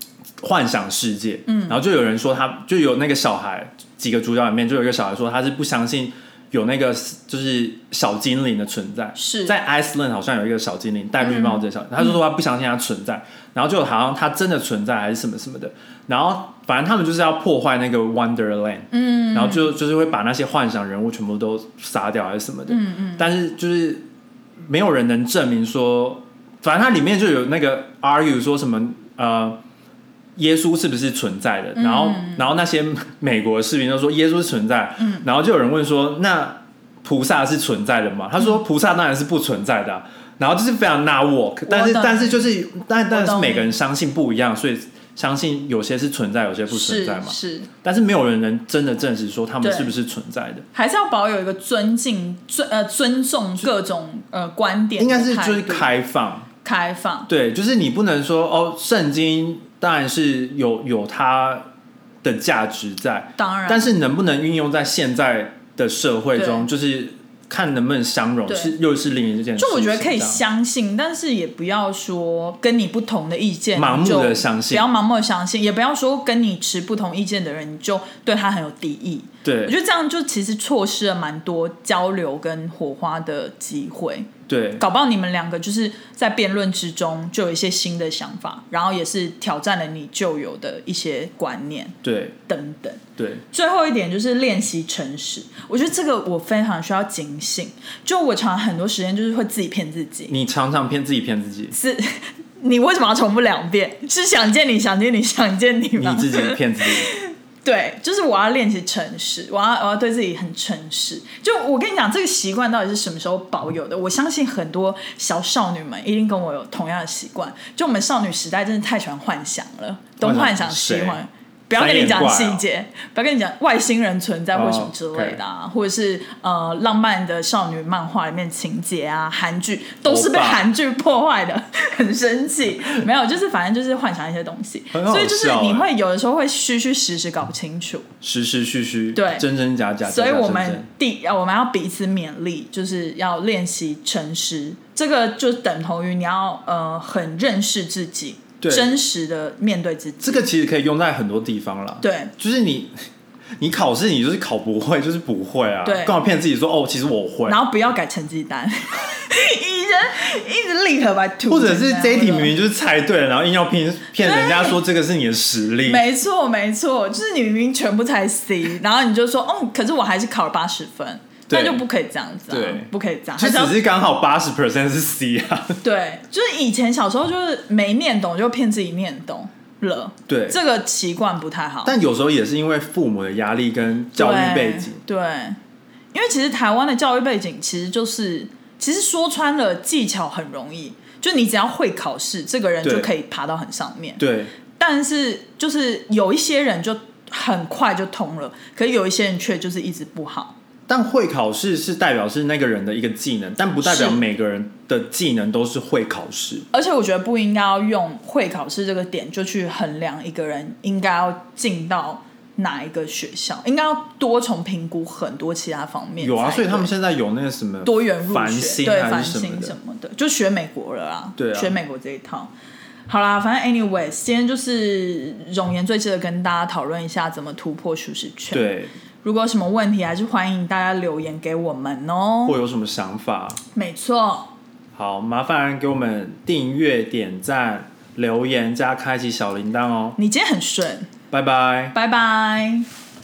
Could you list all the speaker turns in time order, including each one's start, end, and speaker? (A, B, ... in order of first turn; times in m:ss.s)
0:00.4-0:24.0 A
0:01.5-0:01.8 B
0:09.2-0:09.6 B
0:11.2-0:11.6 B
0:18.9-0:19.7 B
0:22.7-0:23.3 B
0:24.7-0:29.6 A
0:30.4-0:50.7 A
0:31.8-0:32.4 B
0:35.0-0:35.2 B
0:41.7-0:42.5 B
0:43.1-0:43.7 B
0:46.7-0:47.7 B
0:49.6-0:49.9 B
0:50.7-0:55.9 B
0:55.0-0:56.5 A
0:56.6-0:57.3 B
0:57.3-1:01.7 A
1:02.2-1:10.4 A
1:03.4-1:04.0 B
1:06.4-1:06.7 B
1:08.5-1:08.8 B
1:09.6-1:40.3 B
1:13.8-1:14.9 A
1:19.4-1:19.8 A
1:24.5-1:24.8 A
1:32.0-1:32.4 A
1:33.2-1:33.4 A
1:40.3-1:41.8 A
1:41.7-2:18.1 B
1:46.0-1:47.1 A
2:00.2-2:01.2 A
2:01.7-2:02.6 A
2:04.5-2:05.4 A
2:10.0-2:10.7 A
2:14.9-2:15.9 A
2:18.2-2:20.9 A
2:19.2-2:19.4 B
2:20.0-2:30.5 B
2:28.6-2:29.0 A
2:30.2-2:33.0 A
2:32.0-2:32.3 B
2:33.6-2:37.6 A
2:35.8-2:36.2 B
2:37.5-2:42.5 B
2:41.5-2:46.1 A
2:44.2-2:44.8 B
2:45.8-2:53.8 B
2:51.5-2:51.8 A
2:52.5-2:55.8 A
2:55.8-3:02.0 B
3:00.3-3:00.6 A
3:01.8-3:05.0 A
3:04.2-3:05.6 B
3:06.1-3:14.2 B
3:12.8-3:13.1 A
3:14.2-3:14.5 A
3:14.8-3:20.5 B
3:20.9-3:26.7 A
3:23.8-3:24.2 B
3:26.7-3:36.9 B
3:36.2-3:39.8 A
3:37.8-3:42.5 B
3:41.4-3:41.8 A
3:43.1-3:52.6 B
3:48.5-3:48.9 A
3:52.4-3:53.6 A
3:53.7-3:54.5 B
3:54.9-4:00.2 A
4:00.2-4:01.1 B
4:01.3-4:02.0 A
4:01.9-4:02.9 B